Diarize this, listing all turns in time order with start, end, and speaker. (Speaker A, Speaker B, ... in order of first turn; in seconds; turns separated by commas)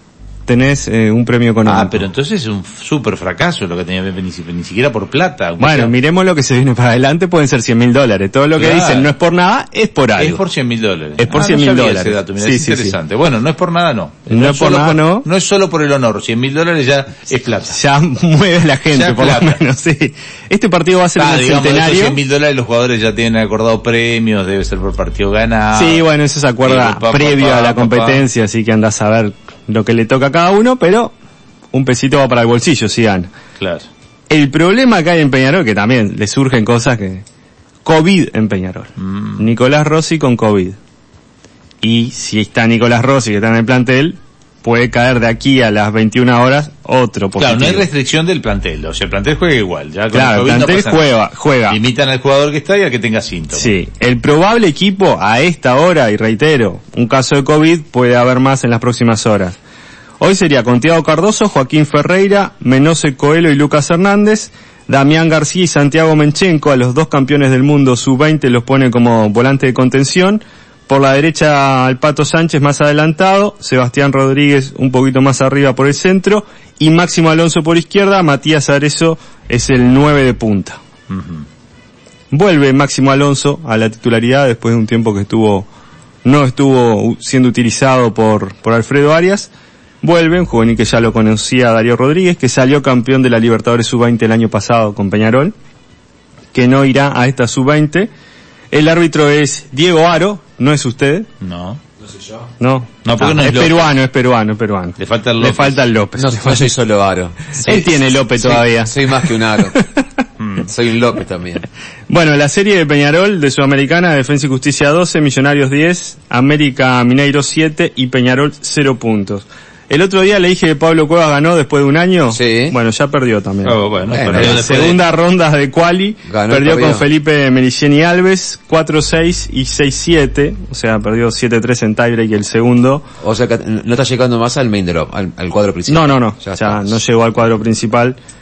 Speaker A: 0.5-2.0, Speaker B: 1.6-5.9, Speaker A: 5.6-10.4, Speaker B: 8.6-9.1, Speaker B: 10.2-17.8, Speaker A: 11.2-13.0, Speaker A: 14.3-15.2, Speaker A: 17.7-22.2, Speaker B: 18.9-19.6, Speaker B: 21.1-26.1, Speaker A: 25.7-31.1, Speaker B: 26.6-28.2, Speaker A: 31.7-33.3, Speaker B: 33.6-33.9, Speaker A: 34.3-37.2, Speaker A: 37.8-40.8, Speaker B: 39.0-39.4, Speaker A: 41.8-47.9, Speaker B: 47.4-51.1, Speaker A: 50.1-51.8, Speaker B: 51.6-53.8, Speaker A: 53.5-59.5, Speaker A: 60.2-80.8, Speaker B: 81.1-81.4, Speaker A: 82.3-85.7, Speaker A: 86.2-89.5, Speaker A: 90.0-95.5, Speaker A: 96.5-98.1, Speaker A: 98.7-101.3, Speaker B: 101.4-101.8, Speaker A: 102.6-106.7, Speaker B: 103.0-103.9, Speaker B: 105.0-105.8, Speaker C: 106.2-109.8, Speaker A: 107.6-109.1, Speaker B: 110.4-110.7, Speaker C: 110.6-111.6, Speaker A: 112.1-133.0, Speaker C: 122.3-122.8, Speaker B: 123.6-125.0, Speaker C: 124.1-124.7, Speaker C: 126.3-127.1, Speaker C: 133.2-137.0, Speaker A: 135.9-138.2